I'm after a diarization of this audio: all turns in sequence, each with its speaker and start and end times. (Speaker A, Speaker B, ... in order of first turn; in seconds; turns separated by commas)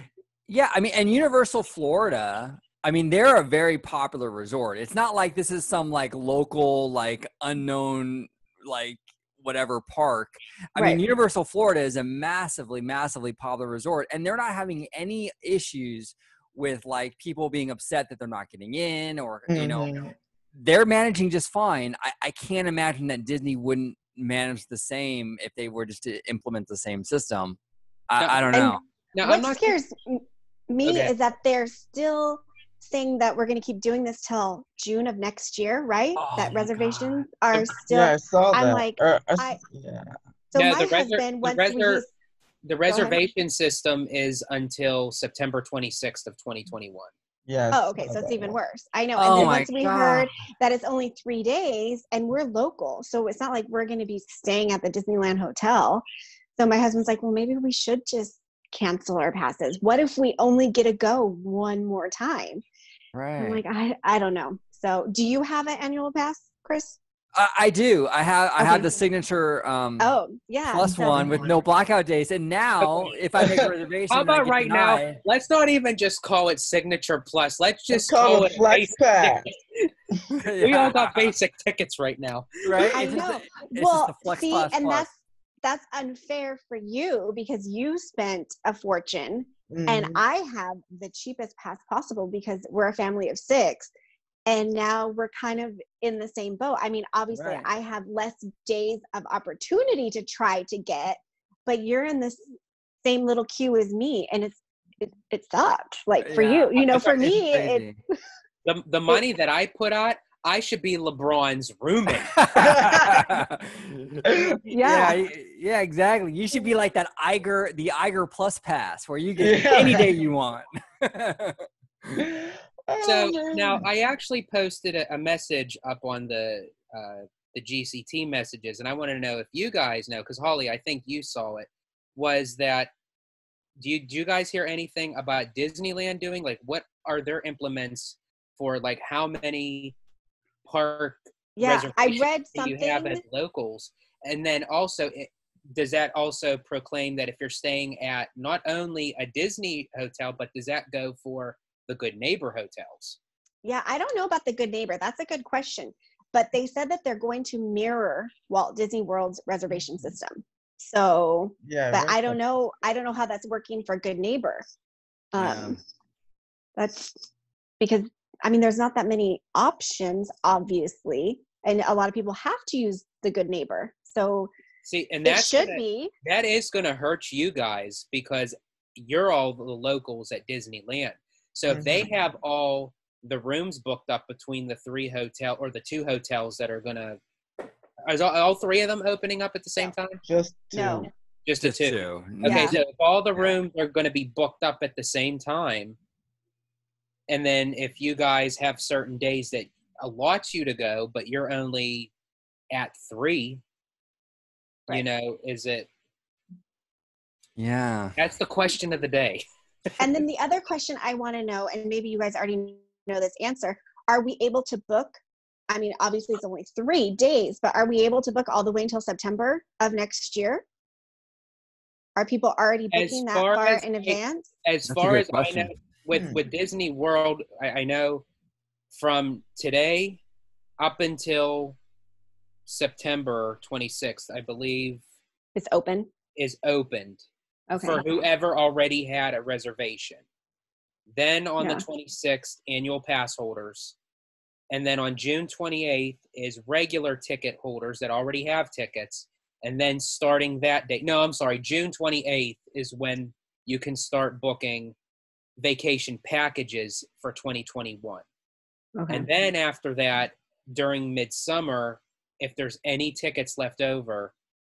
Speaker A: 0.5-20.0, Speaker B: 19.5-20.1, Speaker A: 20.6-27.6, Speaker A: 28.1-28.8, Speaker C: 28.2-28.5, Speaker D: 28.5-39.6, Speaker C: 29.1-29.8, Speaker C: 30.8-31.1, Speaker A: 36.2-37.3, Speaker B: 37.9-40.1, Speaker D: 40.5-42.1, Speaker C: 40.5-42.0, Speaker C: 42.6-47.1, Speaker D: 42.9-43.2, Speaker B: 47.5-48.6, Speaker D: 47.7-56.0, Speaker A: 49.2-50.3, Speaker D: 56.6-62.6, Speaker A: 63.1-63.6, Speaker D: 63.4-67.0, Speaker A: 67.3-70.1, Speaker D: 68.6-69.0, Speaker D: 70.0-71.4, Speaker A: 70.7-75.2, Speaker B: 71.1-71.5, Speaker B: 73.4-73.7, Speaker C: 74.1-79.9, Speaker B: 77.9-79.5, Speaker A: 80.3-81.3, Speaker C: 80.6-83.2, Speaker A: 82.7-85.1, Speaker D: 82.9-93.9, Speaker B: 89.7-90.2, Speaker D: 94.5-102.4, Speaker A: 97.3-97.7, Speaker D: 103.0-107.9, Speaker A: 106.2-108.0, Speaker C: 108.7-112.5, Speaker A: 112.2-114.3, Speaker B: 112.6-113.2, Speaker B: 114.2-114.5, Speaker D: 114.7-115.2, Speaker A: 114.8-121.7, Speaker B: 119.4-120.2, Speaker B: 122.1-123.8, Speaker C: 123.0-132.9, Speaker C: 133.8-140.0, Speaker C: 140.7-153.2, Speaker D: 141.6-143.2, Speaker D: 153.6-164.7, Speaker B: 161.6-162.4, Speaker D: 165.3-165.8, Speaker A: 165.4-165.7, Speaker D: 166.8-167.2, Speaker D: 167.8-174.5, Speaker C: 174.8-187.2, Speaker D: 175.2-176.1, Speaker B: 181.7-182.1, Speaker C: 188.1-190.2, Speaker B: 190.3-191.1, Speaker D: 190.7-191.1, Speaker C: 191.5-196.0, Speaker A: 191.6-192.8, Speaker D: 192.4-192.8, Speaker C: 197.3-202.1, Speaker C: 202.7-203.6, Speaker C: 204.9-205.9, Speaker A: 207.6-208.2, Speaker C: 208.2-209.4, Speaker D: 210.0-220.6, Speaker D: 222.2-224.5, Speaker C: 222.9-228.2, Speaker A: 224.9-225.7, Speaker B: 226.1-226.4, Speaker C: 228.9-230.2, Speaker C: 230.8-231.8, Speaker C: 232.7-235.0, Speaker D: 235.6-236.1, Speaker C: 236.3-237.2, Speaker D: 237.7-238.0, Speaker C: 237.8-240.2, Speaker C: 241.1-244.0, Speaker C: 244.7-254.9, Speaker C: 255.6-258.2, Speaker D: 259.0-259.3, Speaker C: 259.1-264.3